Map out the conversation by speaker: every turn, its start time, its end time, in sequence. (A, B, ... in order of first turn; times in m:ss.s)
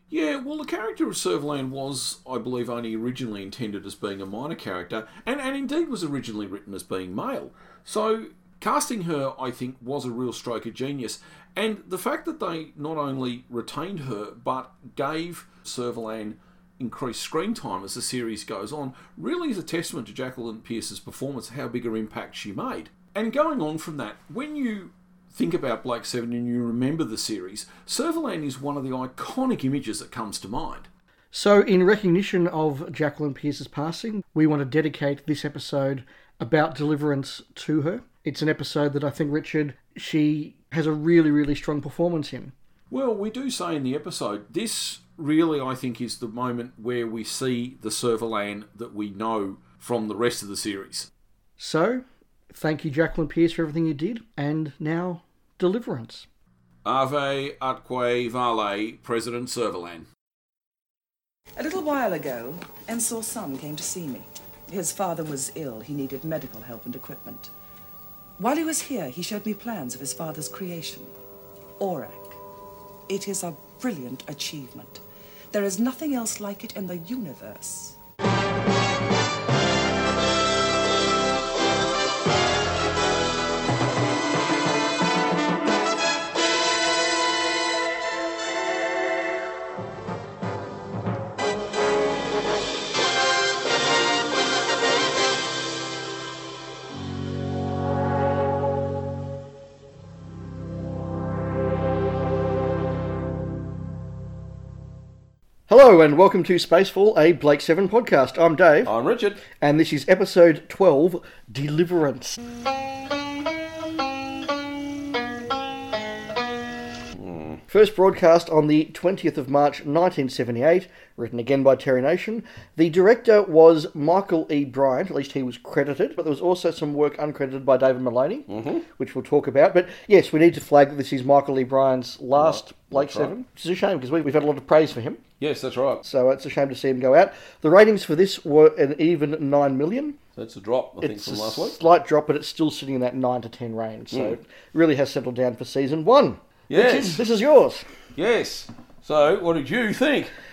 0:00.1-0:30.9 A
0:31.3-0:42.5 B
0:42.9-0:51.1 A
0:51.6-0:56.3 B
0:56.8-1:00.1 A
1:01.6-1:07.5 C
1:08.4-1:11.1 C
1:11.8-1:12.4 C
1:13.1-1:15.0 C
1:15.5-1:18.0 C
1:45.7-1:48.9 B
1:48.8-1:49.4 A
1:49.6-1:52.4 B
1:57.1-1:57.6 A
1:57.7-2:15.2 B
2:08.5-2:08.8 A
2:12.4-2:13.3 A
2:15.4-2:16.0 A
2:16.0-2:20.2 B
2:20.4-2:21.8 A
2:21.0-2:27.8 B
2:24.1-2:24.4 A
2:26.7-2:27.2 A
2:28.2-2:30.3 A